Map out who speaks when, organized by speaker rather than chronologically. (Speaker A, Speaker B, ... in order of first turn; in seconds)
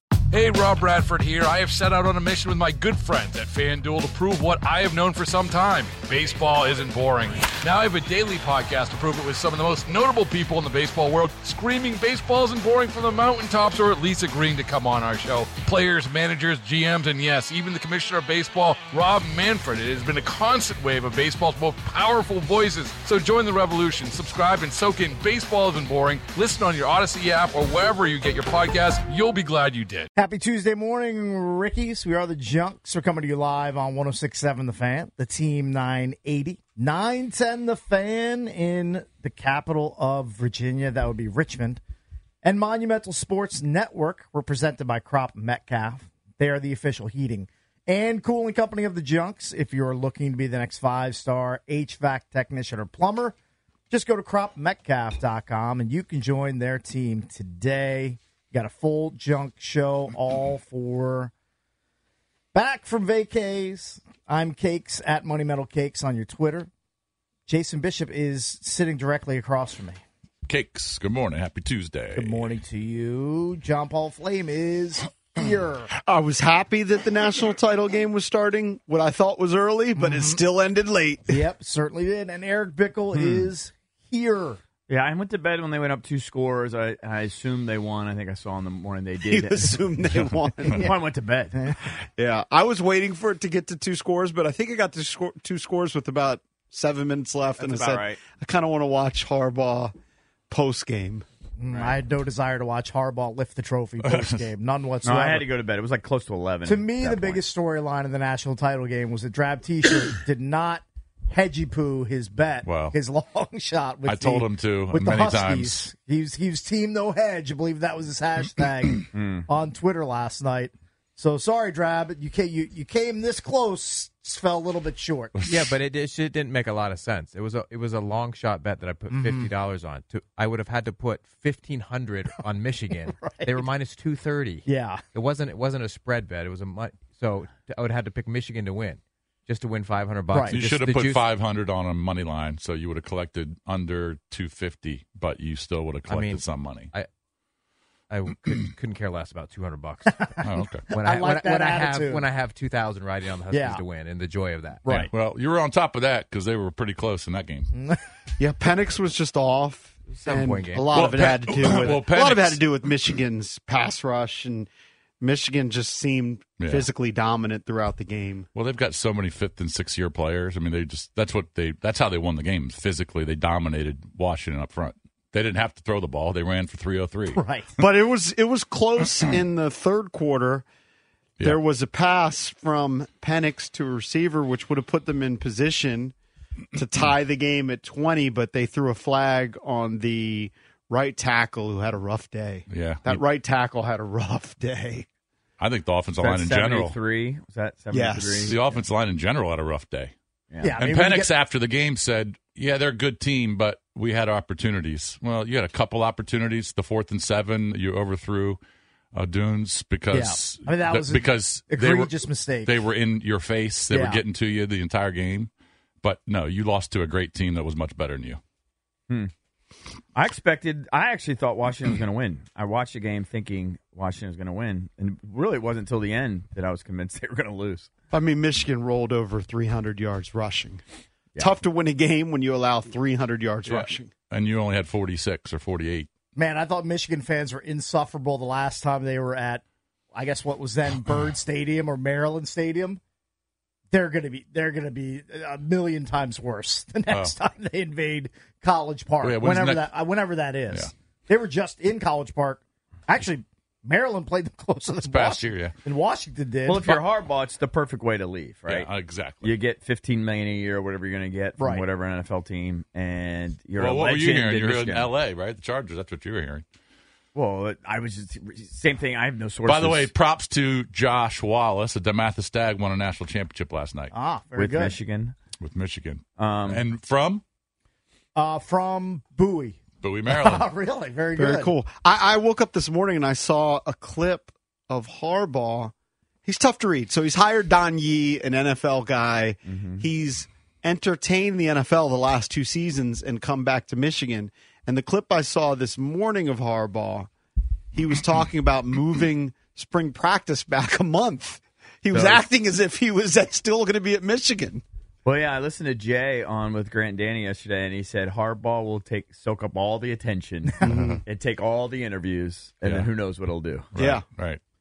Speaker A: 0.3-30.1
Speaker B: 30.1-41.8, 42.4-53.3, 53.9-61.3, 62.5-66.7, 67.5-70.0, 72.1-75.9, 80.0-80.4, 81.3-84.6, 101.6-105.5, 106.6-125.4, 129.1-129.5, 132.9-133.7, 134.6-135.0, 140.3-140.6, 150.1-152.3, 153.5-153.8, 154.8-155.1, 157.7-158.0, 177.3-177.8, 200.6-201.3, 210.1-212.8, 213.9-214.2, 236.3-239.6, 240.1-243.0, 243.9-257.0, 261.6-261.9, 274.1-275.0, 278.3-281.7, 310.6-311.1
Speaker C: 70.5-72.5, 104.0-104.3, 112.6-113.0, 114.0-115.9, 125.3-125.7, 140.5-146.9, 150.4-150.9, 154.9-157.7, 160.9-162.7, 166.6-166.9, 168.5-177.4, 192.7-193.2, 195.6-196.9, 198.4-200.1, 200.7-208.6, 209.1-215.5, 216.0-218.4, 233.7-236.1, 247.1-247.3, 249.2-249.9, 255.0-255.8, 258.7-259.6, 263.8-266.6, 269.6-274.1, 275.6-277.4, 280.0-280.7, 310.8-311.2, 312.8-313.1, 313.9-314.6
Speaker D: 76.0-81.4, 89.2-90.9, 92.0-99.9, 100.5-101.2, 158.4-164.7, 165.2-168.5, 177.8-180.6, 181.4-186.1, 186.7-195.1, 197.9-198.5, 228.1-230.8, 231.4-234.1, 281.4-285.9, 286.4-297.3, 297.9-304.8, 310.8-311.2, 313.9-314.2
Speaker E: 83.1-83.5, 84.9-90.0, 90.7-91.6, 97.6-98.2, 101.7-102.0, 105.0-107.4, 119.1-119.5, 196.2-198.8, 220.1-227.9, 256.6-258.9, 259.4-265.1, 267.3-270.1, 274.5-275.3, 276.4-276.8, 289.6-290.1, 302.1-302.4, 305.2-313.9
Speaker F: 125.5-141.2, 146.1-147.1, 148.1-150.2, 150.9-154.8, 160.2-160.9